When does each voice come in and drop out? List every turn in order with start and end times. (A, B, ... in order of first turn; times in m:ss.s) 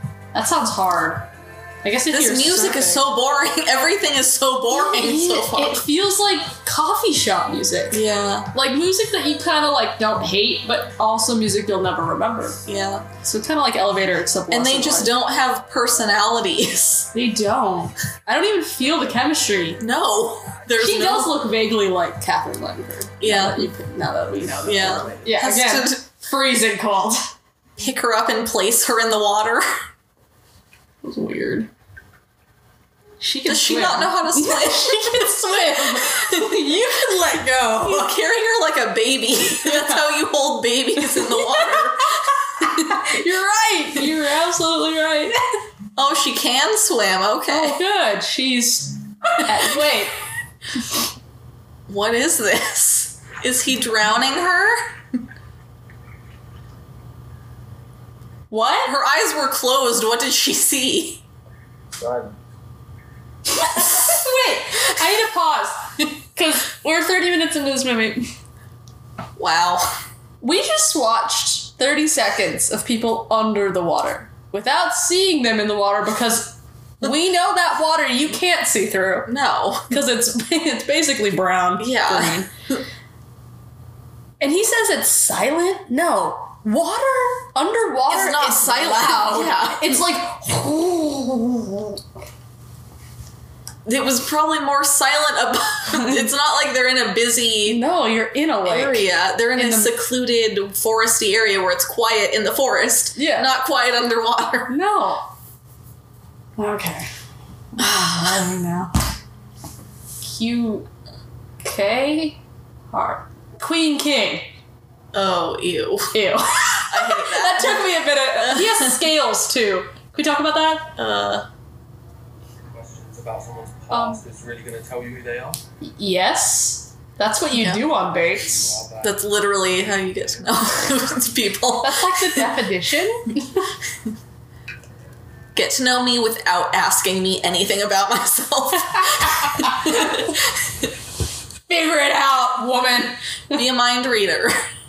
0:00.3-0:01.3 A
0:01.8-0:03.0 A
0:02.1-0:05.8 B
0:04.7-0:08.0 A
0:07.9-0:08.5 B
0:08.5-0:12.6 A
0:12.7-0:13.1 B
0:13.2-0:15.1 A
0:14.5-0:17.1 B
0:17.1-0:19.8 A
0:19.8-0:21.4 B
0:20.8-0:27.3 A
0:23.2-0:23.7 B
0:24.6-0:26.0 B
0:27.8-0:29.7 B
0:31.0-0:31.7 A
0:33.2-0:38.1 A
0:33.4-0:36.8 B
0:37.8-0:43.1 B
0:39.6-0:40.0 A
0:41.0-0:45.4 A
0:46.0-0:47.8 B
0:47.5-0:50.2 A
0:51.9-0:54.8 B
0:58.5-0:58.9 A
0:58.8-1:01.2 B
1:02.0-1:02.4 C
1:03.6-1:08.3 A
1:09.4-1:09.9 B
1:10.4-1:19.3 A
1:19.3-1:20.0 B
1:19.9-1:22.5 A
1:21.8-1:22.8 B
1:24.4-1:32.0 A
1:28.1-1:30.1 B
1:33.8-1:37.8 B
1:37.7-1:39.9 A
1:38.7-1:44.7 B
1:43.2-1:43.5 A
1:44.7-1:45.3 A
1:46.6-1:47.1 A
1:47.8-1:48.6 B
1:47.8-1:48.9 A
1:50.2-1:50.9 A
1:51.6-1:54.5 A
1:55.1-1:56.2 B
1:56.1-2:00.9 A
1:56.9-1:59.0 B
2:01.0-2:01.5 B
2:02.7-2:05.6 C
2:03.9-2:04.2 A
2:05.8-2:08.8 A
2:07.5-2:07.8 B
2:07.9-2:10.9 C
2:09.0-2:12.4 B
2:11.8-2:13.6 A
2:15.6-2:20.4 B
2:19.2-2:20.2 A
2:21.7-2:23.6 A
2:23.5-2:24.6 B